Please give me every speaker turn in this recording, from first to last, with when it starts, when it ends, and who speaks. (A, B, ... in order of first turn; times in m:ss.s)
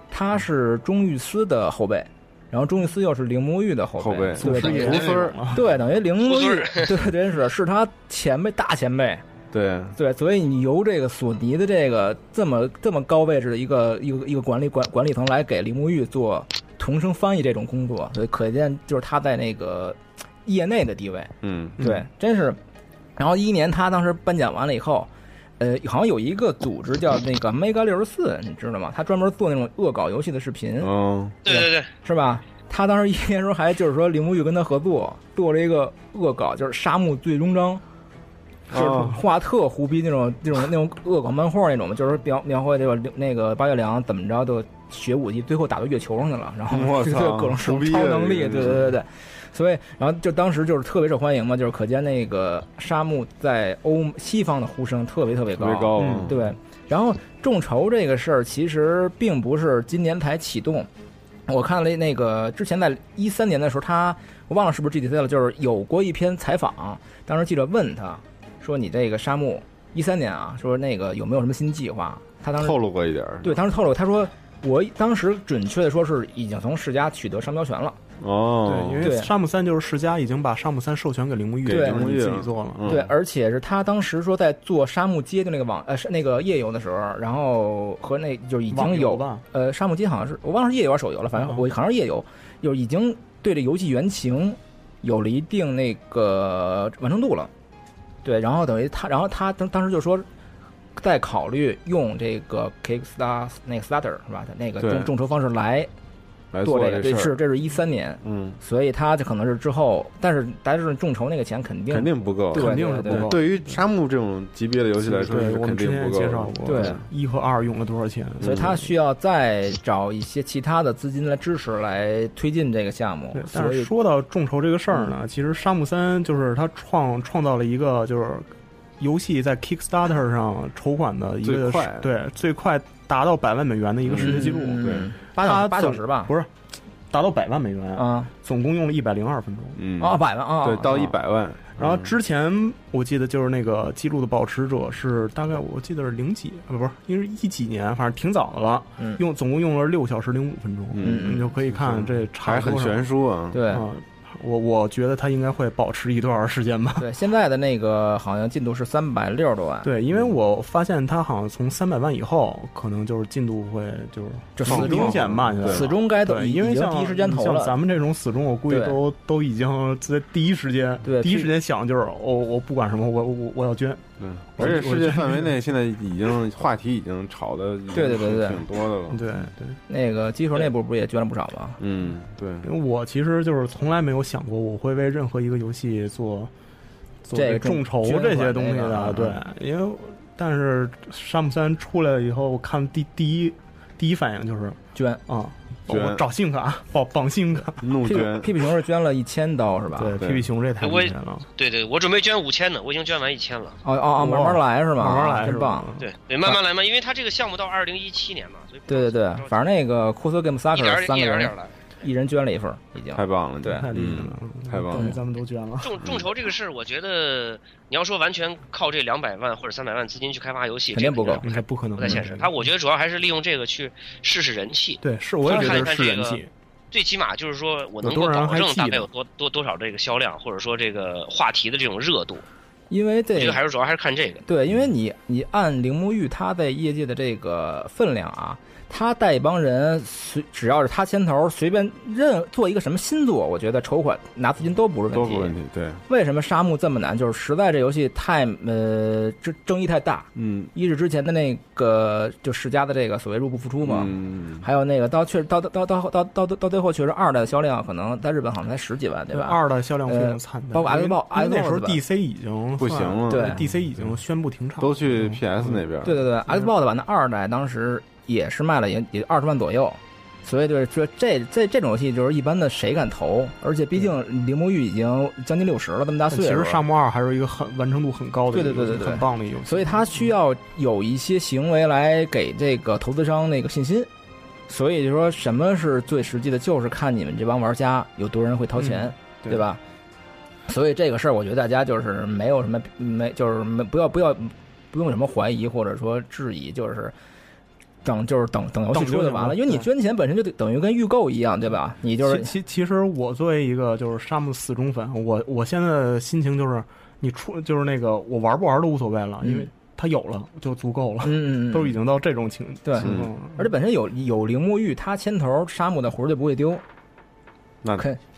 0:00.1-0:09.2 A
0:04.0-0:05.4 B
0:04.4-0:05.6 C
0:06.2-0:07.1 D
0:09.5-0:09.9 B
0:09.9-0:22.6 A
0:21.4-0:21.8 B
0:21.8-0:22.0 C
0:23.2-0:25.1 A
0:25.6-0:30.9 A
0:30.8-0:31.4 B
0:31.4-0:31.9 D
0:31.4-0:37.8 A
0:38.7-0:39.2 B
0:38.7-1:00.9 A
0:46.7-0:48.9 B
0:55.6-0:56.4 B
0:56.0-0:56.4 C
1:01.5-1:12.8 A
1:12.6-1:13.6 B
1:13.4-1:18.0 A
1:18.2-1:19.1 B
1:18.6-1:22.9 C
1:19.0-1:19.3 A
1:21.6-1:23.1 B
1:21.7-1:22.0 A
1:22.8-1:37.5 A
1:28.7-1:29.4 C
1:31.4-1:31.6 C
1:38.2-1:40.2 A
1:41.0-1:45.9 A
1:44.8-1:45.1 B
1:46.5-1:47.4 B
1:46.6-1:53.3 A
1:48.2-1:48.6 B
1:51.9-1:57.0 B
1:52.5-1:53.8 C
1:55.0-1:58.8 C
1:56.6-1:57.0 A
1:58.4-1:58.8 B
1:58.4-2:03.9 A
2:03.3-2:16.5 C
2:11.4-2:12.1 B
2:14.0-2:15.1 B
2:14.2-2:16.3 A
2:17.1-2:19.8 C
2:18.0-2:18.3 A
2:19.8-2:22.1 B
2:20.0-2:21.1 A
2:21.8-2:33.1 C
2:30.9-2:33.6 B
2:31.0-2:31.5 A
2:33.5-2:33.8 A
2:33.6-2:37.1 C
2:37.0-2:39.9 A
2:39.8-2:55.7 C
2:44.6-2:47.8 A
2:44.6-2:45.9 B
2:48.7-2:49.0 A
2:51.0-2:51.5 A
2:54.2-2:59.2 B
2:57.9-2:58.6 A
2:59.1-2:59.8 C
2:59.9-3:01.8 A
3:01.8-3:02.7 B
3:02.6-3:06.5 C
3:07.2-3:18.2 C
3:07.3-3:09.4 A
3:14.9-3:15.2 A
3:15.9-3:16.2 B
3:17.8-3:18.7 B
3:18.0-3:20.2 A
3:19.9-3:21.5 C
3:20.2-3:20.5 B
3:20.8-3:23.8 D
3:23.8-3:25.9 A
3:24.2-3:26.1 C
3:26.0-3:29.7 D
3:28.9-3:33.9 A
3:30.7-3:31.7 D
3:33.1-3:35.1 B
3:33.7-3:36.0 C
3:34.9-3:35.2 A
3:35.8-3:46.4 D
3:40.9-3:41.4 A
3:41.4-3:42.5 C
3:45.0-3:46.5 C
3:46.9-3:52.4 D
3:48.0-3:49.1 C
3:52.9-3:53.6 A
3:53.3-3:54.4 D
3:54.4-4:05.5 A
4:05.1-4:06.0 B
4:06.1-4:22.0 A
4:10.3-4:10.7 B
4:13.8-4:14.7 B
4:19.3-4:25.8 C
4:22.8-4:24.1 B
4:23.3-4:23.6 A
4:24.8-4:26.2 B
4:26.0-4:36.8 A
4:26.4-4:26.7 C
4:36.3-4:40.3 C
4:38.5-4:44.1 A
4:44.7-4:49.8 A
4:48.8-4:49.6 C
4:50.7-4:57.1 A
4:58.0-5:02.5 A
4:58.9-4:59.9 C
5:02.2-5:13.7 C
5:09.4-5:09.7 A
5:11.2-5:12.0 A
5:12.8-5:16.8 A
5:13.0-5:13.3 B